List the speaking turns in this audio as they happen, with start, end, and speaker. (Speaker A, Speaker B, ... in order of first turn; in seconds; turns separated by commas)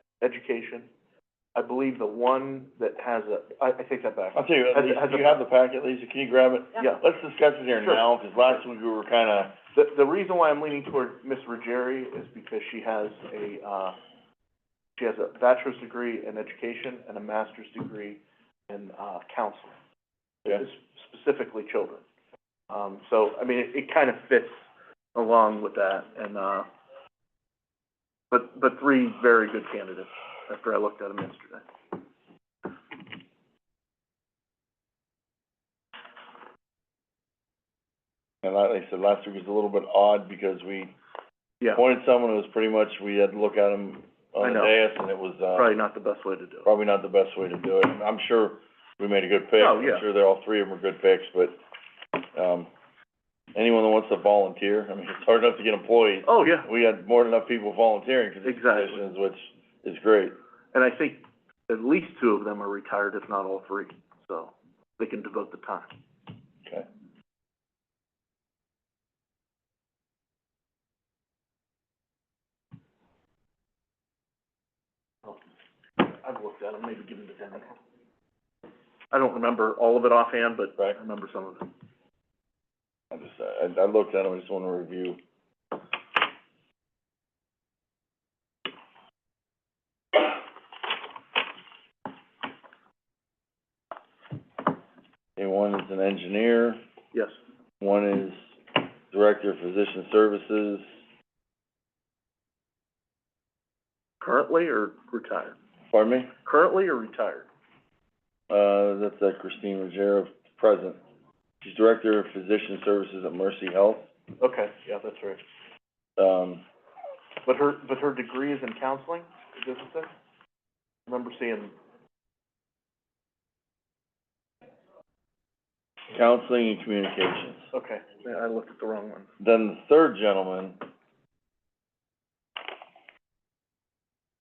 Speaker A: 0.2-0.9, Speaker A: 1.5-5.4, Speaker B: 4.3-9.6, Speaker A: 9.7-13.9, Speaker A: 15.0-19.7, Speaker A: 20.4-22.0, Speaker A: 22.7-24.6, Speaker A: 25.1-26.7, Speaker A: 28.3-31.6, Speaker B: 38.4-40.9, Speaker B: 41.7-45.7, Speaker A: 44.4-44.7, Speaker A: 45.5-46.7, Speaker B: 46.6-51.5, Speaker A: 49.6-50.0, Speaker B: 52.2-52.7, Speaker B: 53.5-60.4, Speaker A: 56.2-56.6, Speaker A: 58.4-59.0, Speaker A: 60.7-65.9, Speaker A: 76.0-77.8, Speaker A: 79.1-81.7, Speaker B: 83.1-85.2, Speaker B: 95.4-96.8, Speaker B: 97.8-100.8, Speaker A: 104.2-105.5, Speaker B: 105.9-106.3, Speaker A: 106.4-107.5, Speaker B: 108.5-111.0, Speaker B: 111.6-114.1, Speaker A: 114.4-115.4, Speaker B: 116.2-116.6, Speaker A: 117.4-120.1, Speaker A: 121.1-121.7, Speaker B: 126.1-127.7, Speaker A: 127.7-129.3, Speaker B: 129.4-130.8